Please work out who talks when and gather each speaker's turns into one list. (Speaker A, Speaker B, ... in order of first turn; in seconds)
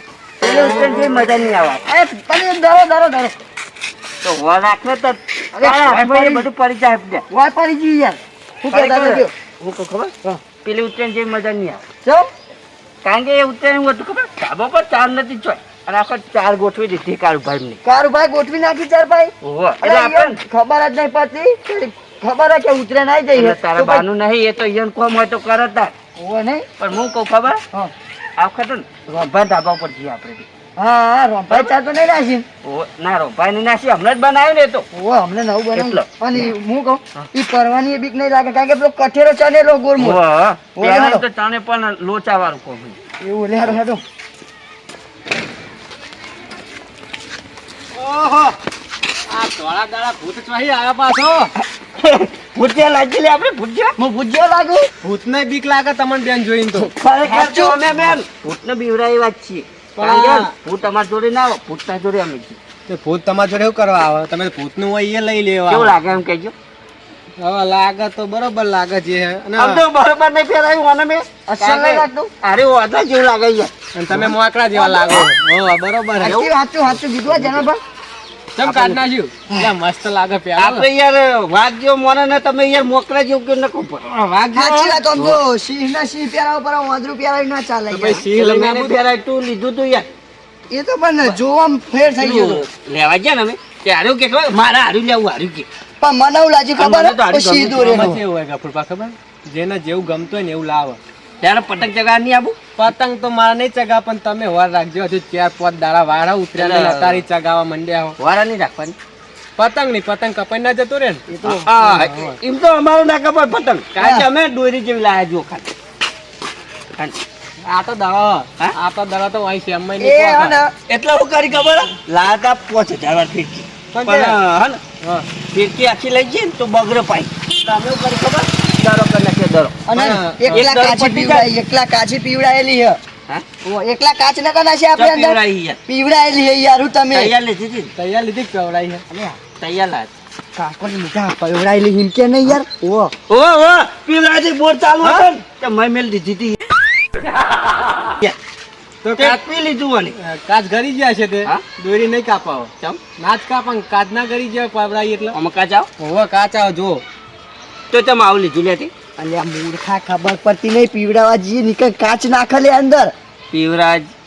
Speaker A: 0.4-1.8, 4.2-7.2, 8.7-11.8, 13.0-17.8, 19.4-20.4, 23.3-25.9, 26.8-27.6, 28.4-30.5, 32.6-34.9, 35.7-36.5, 40.0-43.0, 51.8-54.0, 56.8-62.6, 65.7-66.5, 69.6-74.3, 76.2-76.5, 78.6-79.0, 80.6-85.4, 88.1-90.1, 92.2-95.7, 96.8-98.2, 101.4-102.6, 106.5-107.2, 108.2-109.0, 111.4-115.7, 120.9-124.8, 125.5-129.8, 130.5-131.5, 135.0-135.8, 137.1-137.9, 139.6-140.1, 143.3-146.6, 149.2-150.2, 155.3-155.9, 157.9-158.9, 163.5-164.1
Speaker B: 0.4-3.3, 5.5-6.5, 7.3-9.3, 17.8-24.0, 26.2-26.7, 30.8-32.5, 34.9-40.2, 40.8-41.2, 43.2-44.0, 54.0-54.9, 57.2-57.8, 71.5-72.3, 74.7-75.3, 76.2-77.8, 84.5-88.2, 90.7-92.6, 96.0-98.2, 111.3-111.8, 114.0-114.3, 120.0-120.7, 129.9-133.0, 133.6-137.3, 139.1-139.4, 140.6-143.1, 159.2-163.1
Speaker C: 48.0-48.6, 49.3-51.5, 55.0-56.9, 60.0-60.5, 62.9-66.0, 67.4-69.8, 74.0-77.6, 78.6-80.9, 87.9-88.9, 97.7-101.0, 102.8-108.2, 109.6-111.2, 111.8-112.4, 117.6-120.6, 123.9-124.3, 125.0-125.3, 130.0-130.7, 138.0-139.0, 149.0-149.4, 150.2-155.3, 156.0-157.0